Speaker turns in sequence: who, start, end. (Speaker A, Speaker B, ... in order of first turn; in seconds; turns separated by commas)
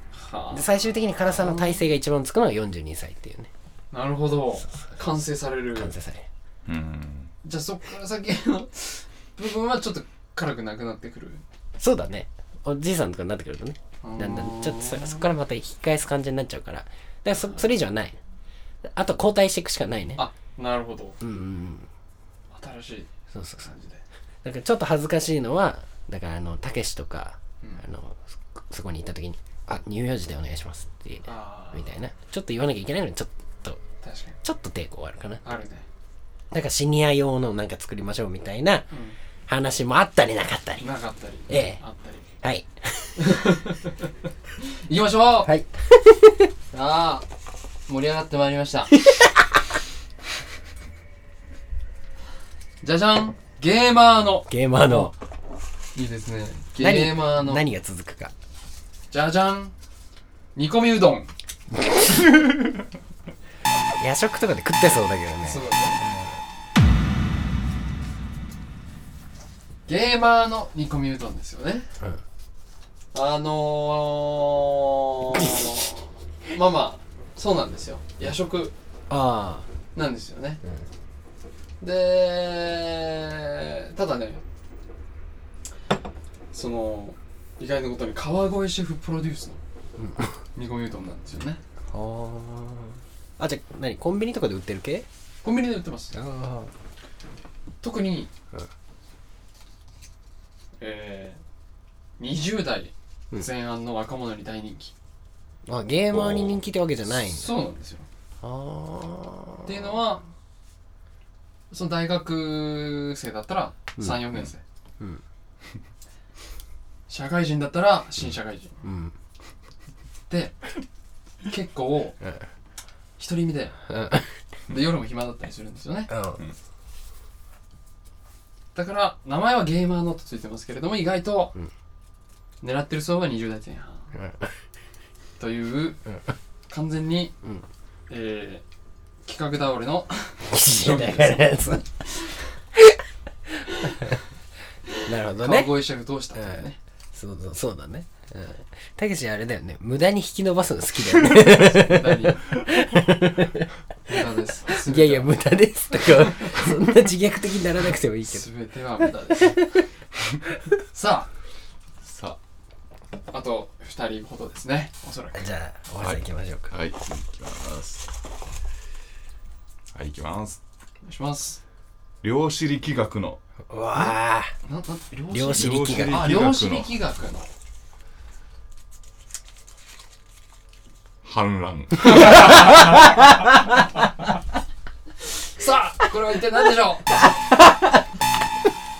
Speaker A: 0.1-1.8, Speaker B: 0.5-3.5, Speaker A: 3.9-5.9, Speaker B: 5.8-6.3, Speaker C: 6.7-7.3, Speaker A: 7.4-11.4, Speaker B: 11.8-18.2, Speaker A: 14.0-15.3, Speaker B: 18.9-20.2, Speaker A: 20.2-21.2, Speaker B: 21.2-21.9, Speaker A: 22.5-24.0, Speaker B: 23.3-23.7, Speaker B: 24.4-33.8, Speaker A: 31.2-31.9, Speaker A: 34.0-34.4, Speaker B: 34.4-35.4, Speaker A: 35.4-35.8, Speaker B: 36.5-38.9, Speaker A: 38.9-39.2, Speaker B: 39.5-40.8, Speaker A: 40.8-42.3, Speaker B: 41.5-41.8, Speaker B: 42.4-43.4, Speaker A: 43.2-45.5, Speaker B: 45.5-46.5, Speaker A: 46.7-47.2, Speaker A: 47.9-49.0, Speaker B: 49.0-49.4, Speaker A: 52.8-55.1, Speaker B: 54.5-55.1, Speaker A: 56.0-57.6, Speaker B: 56.8-58.3, Speaker A: 59.1-59.7, Speaker A: 60.5-61.3, Speaker B: 61.8-62.4, Speaker B: 64.0-66.4, Speaker A: 65.4-66.0, Speaker A: 69.9-71.9, Speaker A: 73.1-78.7, Speaker B: 79.1-79.7, Speaker A: 80.0-80.6, Speaker A: 81.8-84.4, Speaker A: 86.5-89.6, Speaker B: 90.0-90.3, Speaker A: 90.5-91.6, Speaker B: 91.9-95.0, Speaker A: 95.4-96.2, Speaker B: 96.1-96.7, Speaker A: 97.8-98.3, Speaker A: 100.8-101.4, Speaker A: 102.2-104.9, Speaker B: 105.7-107.5, Speaker C: 106.1-106.5, Speaker A: 107.0-108.0, Speaker B: 108.4-109.7, Speaker A: 109.7-110.2, Speaker A: 111.7-114.6, Speaker A: 117.1-118.8, Speaker B: 118.8-119.1, Speaker A: 120.3-120.6, Speaker A: 121.4-122.2, Speaker A: 123.2-123.8, Speaker B: 123.9-124.3, Speaker A: 124.7-126.1, Speaker B: 126.1-126.4, Speaker A: 128.8-131.6, Speaker A: 132.6-134.1, Speaker B: 134.2-134.5, Speaker A: 135.4-136.0, Speaker A: 136.7-137.3, Speaker A: 138.1-138.6, Speaker A: 139.2-142.4, Speaker B: 140.5-141.9, Speaker B: 143.8-144.2, Speaker B: 145.1-145.7, Speaker A: 145.4-146.8, Speaker B: 146.3-153.7, Speaker A: 151.3-152.4, Speaker A: 154.1-155.3, Speaker B: 154.7-158.5, Speaker A: 158.2-159.8, Speaker B: 159.3-159.8, Speaker A: 160.9-161.3, Speaker C: 162.0-162.4, Speaker A: 163.3-165.5, Speaker B: 165.3-166.7, Speaker C: 166.0-168.1, Speaker C: 169.9-170.6, Speaker A: 171.0-171.6, Speaker C: 172.2-173.4, Speaker B: 173.7-174.5, Speaker A: 174.7-177.5, Speaker B: 175.3-176.4, Speaker C: 175.5-176.9, Speaker C: 181.2-182.3, Speaker A: 182.2-182.5, Speaker A: 185.5-187.3